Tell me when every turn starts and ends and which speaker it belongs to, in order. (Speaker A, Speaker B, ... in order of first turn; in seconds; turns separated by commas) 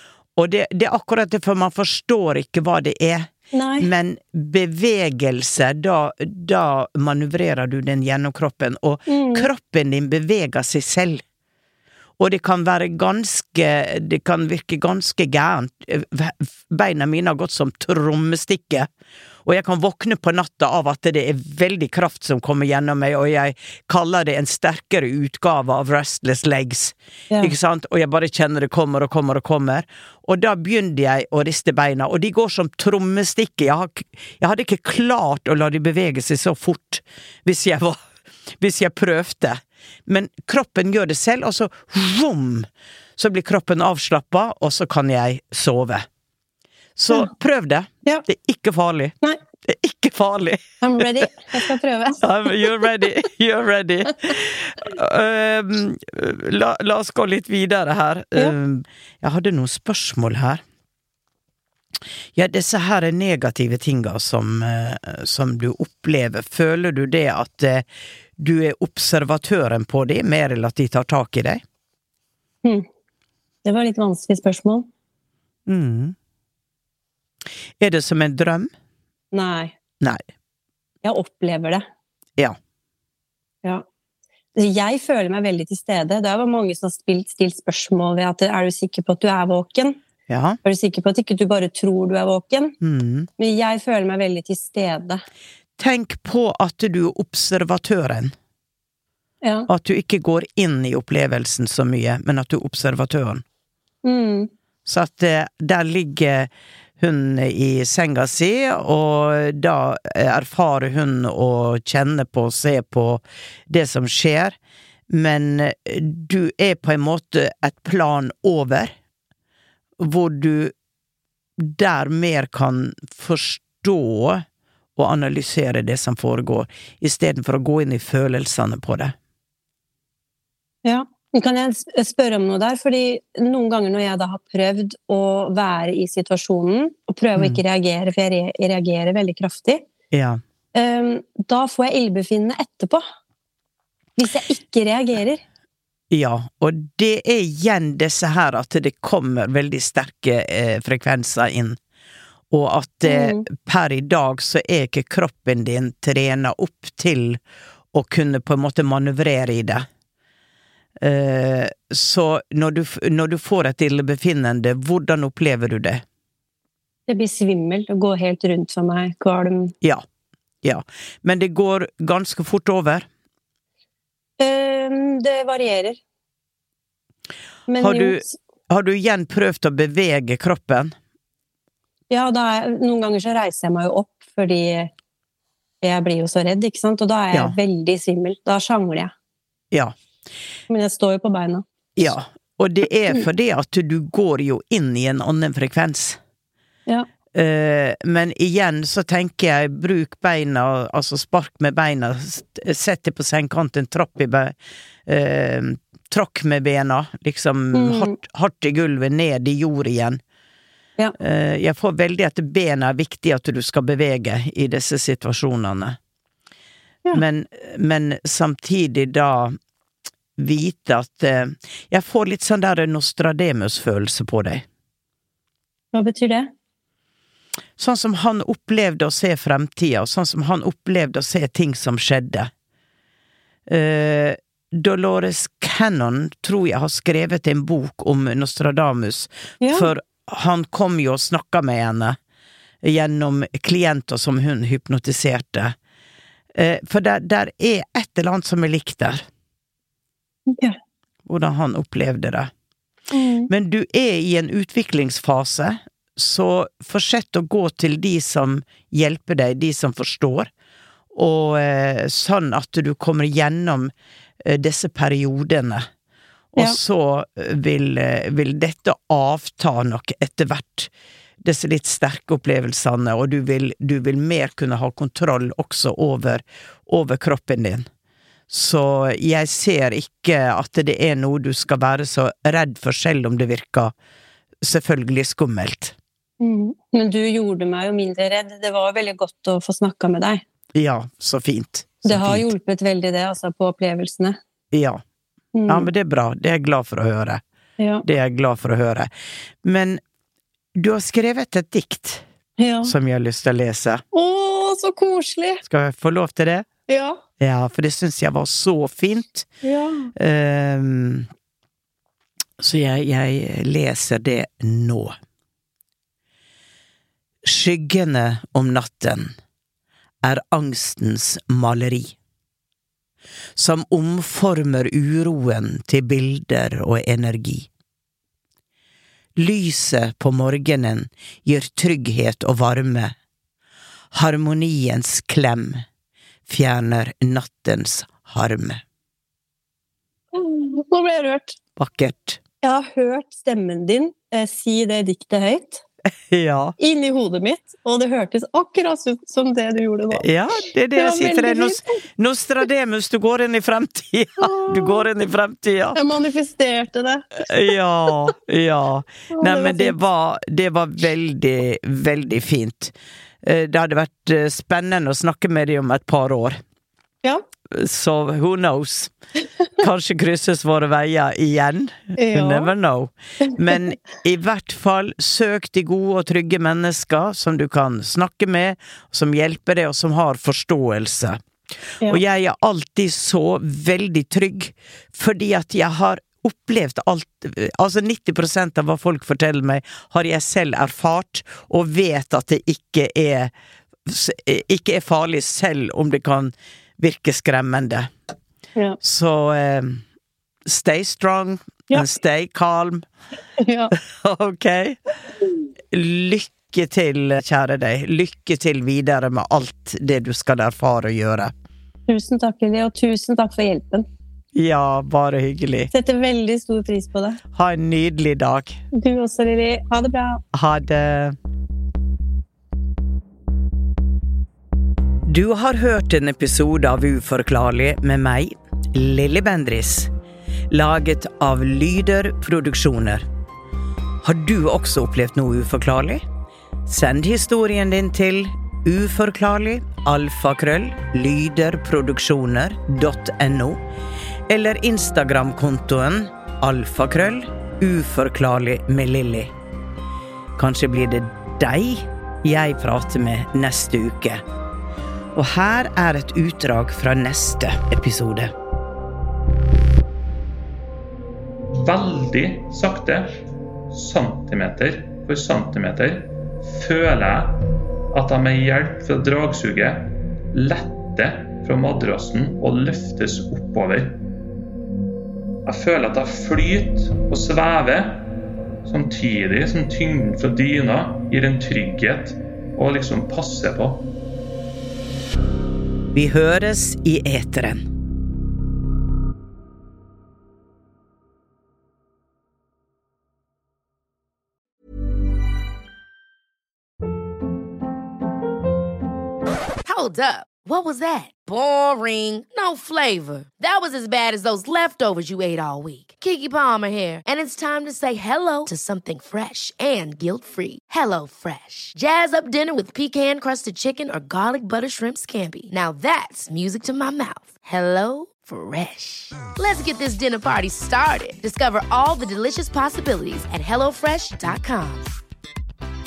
Speaker A: 0.4-11.2, Speaker B: 3.5-3.9, Speaker B: 9.1-9.5, Speaker A: 12.2-18.9, Speaker A: 19.4-38.0, Speaker A: 38.6-46.0, Speaker A: 47.0-51.5, Speaker B: 50.8-52.7, Speaker A: 52.2-60.6, Speaker A: 62.3-67.8, Speaker A: 68.4-71.6, Speaker B: 73.6-74.9, Speaker A: 75.7-76.1, Speaker A: 77.8-78.7, Speaker B: 79.3-79.7, Speaker B: 81.0-81.8, Speaker B: 84.5-90.0, Speaker A: 90.3-90.6, Speaker B: 90.6-92.8, Speaker A: 92.8-93.3, Speaker B: 93.4-95.2, Speaker A: 95.8-98.3, Speaker B: 99.4-99.7, Speaker A: 99.7-103.4, Speaker B: 104.0-104.5, Speaker A: 104.8-106.5, Speaker A: 107.0-114.5, Speaker A: 115.1-118.9, Speaker A: 120.0-120.7, Speaker A: 121.6-124.4, Speaker A: 125.0-129.1, Speaker B: 130.8-139.8, Speaker A: 137.3-137.6, Speaker A: 140.1-140.4, Speaker B: 140.7-143.0, Speaker B: 144.2-145.4, Speaker A: 146.1-151.8, Speaker A: 152.5-157.4, Speaker B: 153.0-153.4, Speaker A: 157.9-159.8, Speaker A: 161.0-166.0, Speaker B: 167.1-169.7, Speaker A: 170.6-173.1, Speaker B: 174.4-176.0, Speaker B: 177.7-178.3, Speaker A: 177.8-180.9, Speaker B: 182.1-184.9, Speaker B: 185.8-189.1, Speaker B: 190.7-191.6, Speaker A: 192.0-196.2, Speaker A: 197.3-204.5, Speaker A: 205.1-210.2, Speaker B: 207.7-208.2, Speaker A: 211.2-216.0, Speaker A: 217.1-219.5, Speaker A: 220.4-224.6, Speaker B: 225.9-226.5, Speaker A: 227.8-232.5, Speaker A: 233.7-242.2, Speaker B: 239.6-239.9, Speaker A: 242.8-245.7, Speaker A: 246.6-249.2, Speaker B: 250.5-250.8, Speaker A: 251.2-252.5, Speaker B: 253.1-253.5, Speaker A: 253.5-260.5, Speaker A: 261.1-263.9, Speaker A: 264.4-265.9, Speaker A: 266.5-270.9, Speaker A: 271.4-277.8, Speaker A: 278.5-283.9, Speaker A: 284.6-285.9, Speaker B: 286.4-290.4, Speaker A: 290.7-292.5, Speaker B: 292.0-294.4, Speaker A: 294.7-295.0, Speaker B: 295.5-295.9, Speaker A: 295.7-297.4, Speaker B: 297.8-298.1, Speaker A: 298.0-299.1, Speaker A: 299.6-300.0, Speaker A: 300.7-302.2, Speaker B: 302.6-302.9, Speaker A: 302.8-304.0, Speaker B: 304.1-305.6, Speaker A: 305.6-306.7, Speaker B: 306.9-307.2, Speaker A: 307.4-309.5, Speaker B: 309.6-310.1, Speaker A: 310.1-311.3, Speaker A: 312.6-315.1, Speaker A: 317.4-319.3, Speaker A: 320.2-322.1, Speaker A: 323.6-327.7, Speaker A: 329.4-333.1, Speaker A: 334.1-335.8, Speaker A: 336.5-338.8, Speaker B: 340.3-341.6, Speaker A: 341.8-342.4, Speaker B: 342.6-345.8, Speaker A: 346.3-346.8, Speaker B: 346.8-350.2, Speaker A: 350.1-356.0, Speaker B: 350.9-351.9, Speaker B: 354.4-355.0, Speaker B: 355.9-357.4, Speaker A: 357.4-366.6, Speaker B: 359.3-359.9, Speaker A: 367.7-369.1, Speaker A: 369.8-381.4, Speaker B: 372.2-372.7, Speaker B: 373.4-373.9, Speaker A: 382.0-393.5, Speaker A: 394.1-398.1, Speaker A: 399.0-400.0, Speaker A: 400.6-403.1, Speaker B: 403.6-403.9, Speaker A: 403.9-405.0, Speaker A: 405.9-411.5, Speaker B: 412.1-414.1, Speaker A: 414.6-415.9, Speaker B: 415.9-417.4, Speaker A: 417.5-418.8, Speaker B: 418.9-420.4, Speaker A: 420.5-421.4, Speaker A: 425.3-430.1, Speaker A: 430.7-433.2, Speaker A: 434.2-436.2, Speaker A: 436.9-443.8, Speaker A: 444.5-449.5, Speaker A: 450.6-454.4, Speaker A: 455.3-458.5, Speaker C: 461.7-467.6, Speaker C: 468.1-474.2, Speaker C: 475.6-478.2, Speaker C: 478.8-484.1, Speaker A: 486.1-487.8, Speaker D: 499.9-525.1